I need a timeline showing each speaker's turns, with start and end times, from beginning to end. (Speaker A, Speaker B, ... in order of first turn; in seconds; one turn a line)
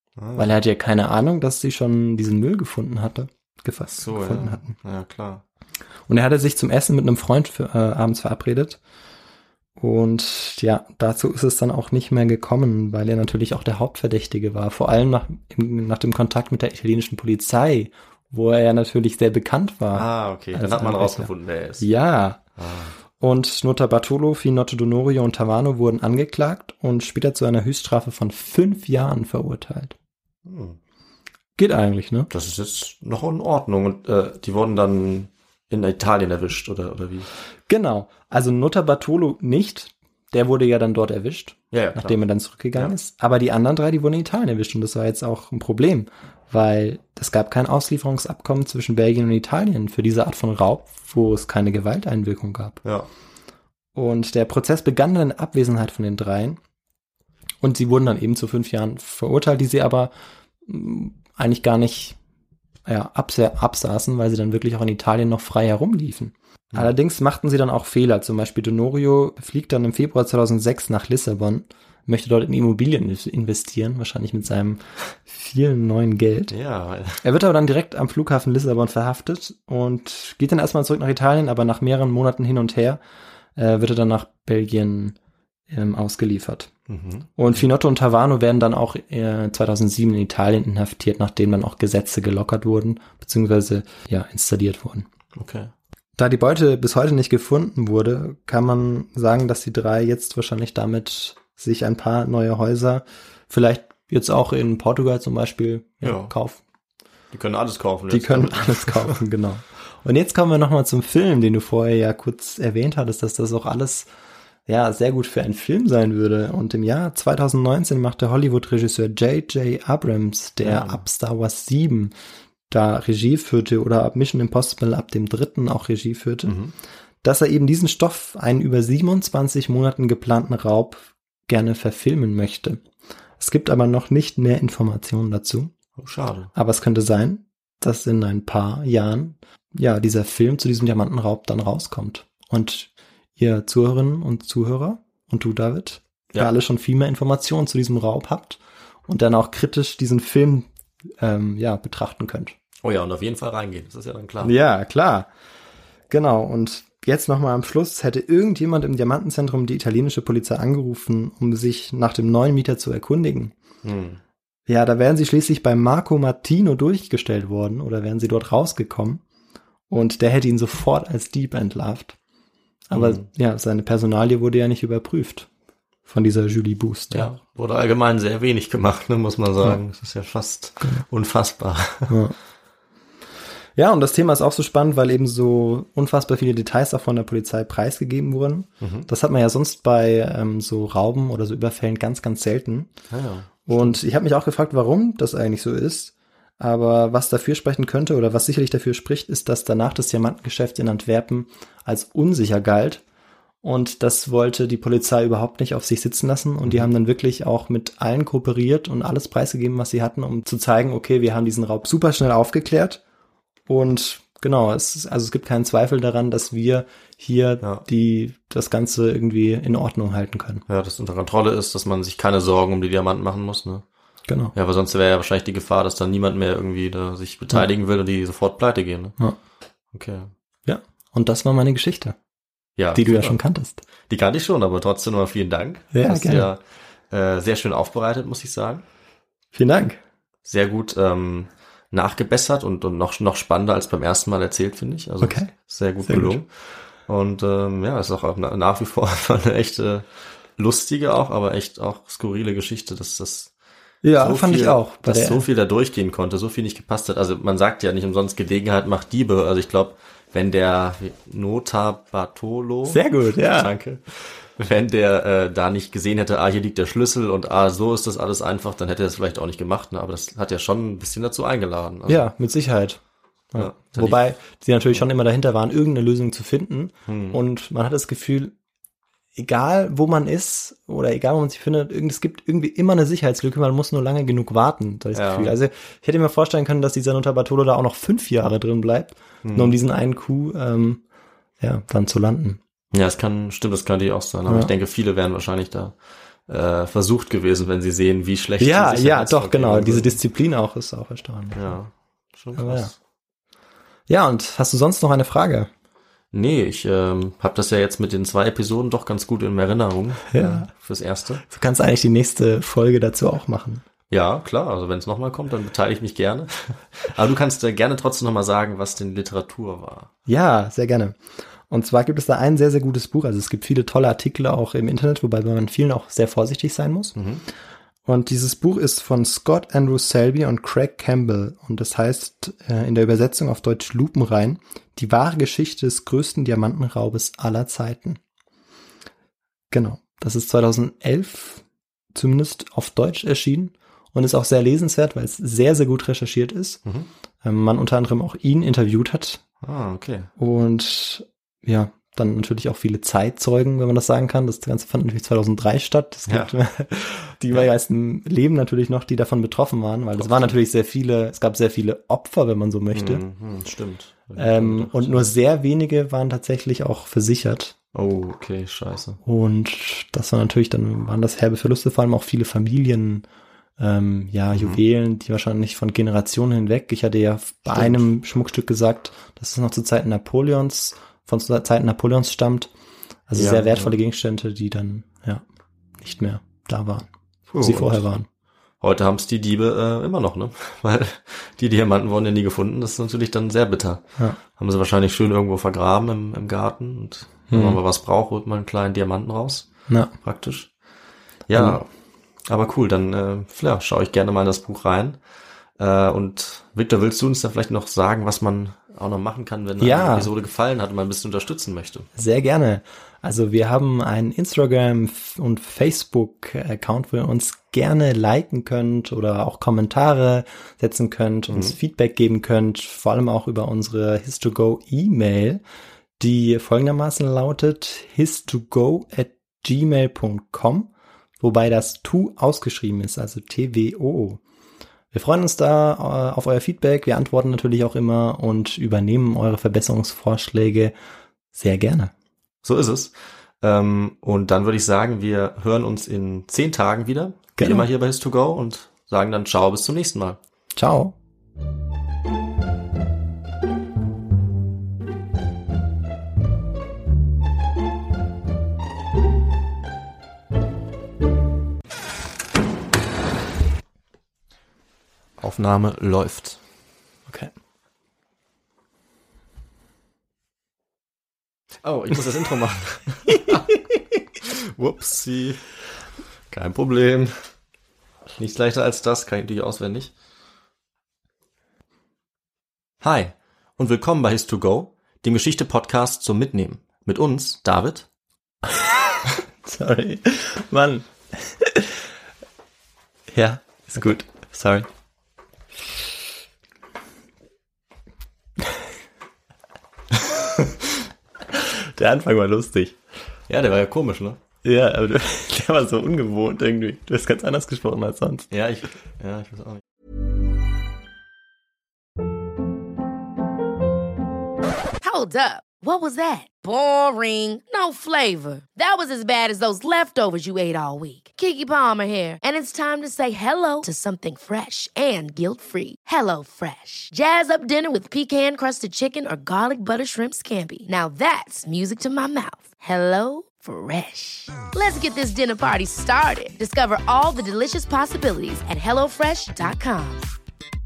Speaker A: 0.2-0.5
Speaker B: 0.4-4.7
Speaker A: 4.0-5.4
Speaker B: 6.1-8.8
Speaker B: 9.8-22.4
Speaker A: 19.9-21.9
Speaker A: 22.6-22.9
Speaker B: 23.2-29.9
Speaker A: 30.4-30.8
Speaker B: 31.6-32.3
Speaker A: 32.3-37.3
Speaker B: 37.7-52.8
Speaker A: 41.7-42.2
Speaker A: 52.8-53.1
Speaker B: 53.9-56.6
Speaker B: 57.6-60.1
Speaker B: 60.6-62.2
Speaker B: 62.9-76.5
Speaker A: 76.5-77.2
Speaker B: 77.2-83.0
Speaker B: 83.5-85.2
Speaker B: 85.7-86.7
Speaker A: 86.9-87.6
Speaker B: 87.4-95.1
Speaker A: 95.3-95.7
Speaker B: 96.2-106.6
Speaker A: 106.0-106.3
Speaker A: 107.3-109.2
Speaker B: 108.1-114.1
Speaker B: 114.7-122.1
Speaker A: 120.6-121.0
Speaker B: 122.7-126.5
Speaker A: 126.5-126.7
Speaker B: 127.2-132.8
Speaker B: 133.4-135.7
Speaker A: 136.0-136.5
Speaker B: 136.5-150.7
Speaker B: 151.2-152.5
Speaker A: 152.8-154.5
Speaker B: 154.4-155.3
Speaker B: 156.1-163.5
Speaker A: 163.8-164.2
Speaker B: 164.7-169.2
Speaker B: 169.9-172.2
Speaker B: 172.9-175.5
Speaker A: 172.9-173.2
Speaker B: 176.1-177.3
Speaker A: 177.1-182.2
Speaker B: 182.1-182.4
Speaker B: 183.8-192.9
Speaker A: 188.8-189.1
Speaker A: 193.1-194.0
Speaker B: 193.7-203.0
Speaker B: 203.6-213.0
Speaker A: 206.6-206.9
Speaker B: 213.7-220.6
Speaker A: 220.7-223.8
Speaker B: 224.3-224.5
Speaker A: 224.5-229.2
Speaker A: 229.9-230.3
Speaker B: 230.7-232.2
Speaker A: 232.8-233.4
Speaker B: 232.9-233.8
Speaker A: 234.1-238.8
Speaker B: 235.9-236.5
Speaker B: 239.5-240.0
Speaker A: 240.4-246.5
Speaker B: 245.2-245.5
Speaker B: 246.0-246.4
Speaker A: 247.0-253.5
Speaker B: 254.0-255.4
Speaker A: 254.2-272.3
Speaker B: 262.9-263.7
Speaker B: 272.1-273.0
Speaker B: 273.5-278.5
Speaker A: 273.5-274.3
Speaker A: 277.1-277.4
Speaker B: 279.4-291.0
Speaker A: 285.1-285.5
Speaker A: 289.4-289.7
Speaker B: 291.6-292.6
Speaker A: 292.9-300.2
Speaker B: 298.6-301.8
Speaker A: 301.5-302.9
Speaker B: 302.5-302.9
Speaker B: 304.1-305.7
Speaker A: 306.3-311.4
Speaker B: 310.3-310.7
Speaker B: 311.4-313.8
Speaker A: 314.1-320.1
Speaker B: 320.3-321.2
Speaker B: 321.7-327.2
Speaker A: 327.1-327.4
Speaker B: 328.1-338.2
Speaker B: 339.7-341.6
Speaker B: 342.1-346.8
Speaker B: 347.4-349.4
Speaker A: 349.6-350.3
Speaker B: 350.4-363.2
Speaker A: 356.3-356.5
Speaker A: 360.1-360.6
Speaker A: 362.9-365.3
Speaker B: 364.4-367.7
Speaker A: 367.9-369.2
Speaker B: 369.2-373.2
Speaker B: 373.8-382.7
Speaker A: 374.5-374.8
Speaker A: 377.7-378.0
Speaker B: 383.3-385.4
Speaker A: 383.3-383.9
Speaker B: 386.0-387.1
Speaker A: 387.5-388.0
Speaker B: 387.6-388.3
Speaker A: 388.8-400.7
Speaker B: 397.5-397.8
Speaker B: 399.9-400.1
Speaker A: 401.5-401.9
Speaker B: 401.5-401.8
Speaker A: 402.4-405.2
Speaker A: 405.8-412.1
Speaker B: 409.8-410.3
Speaker B: 412.1-425.6
Speaker A: 421.5-421.8
Speaker B: 426.2-434.4
Speaker B: 435.1-440.9
Speaker B: 441.5-442.1
Speaker A: 442.6-450.4
Speaker B: 447.6-447.9
Speaker B: 450.8-451.1
Speaker A: 465.4-466.6
Speaker A: 471.8-473.6
Speaker A: 474.4-475.7
Speaker A: 476.5-477.5
Speaker A: 478.4-480.1
Speaker A: 483.0-488.1
Speaker B: 489.6-492.0
Speaker B: 493.3-494.9
Speaker B: 501.5-503.0
Speaker A: 503.5-504.4
Speaker B: 504.6-508.5
Speaker A: 508.5-509.8
Speaker C: 515.0-540.3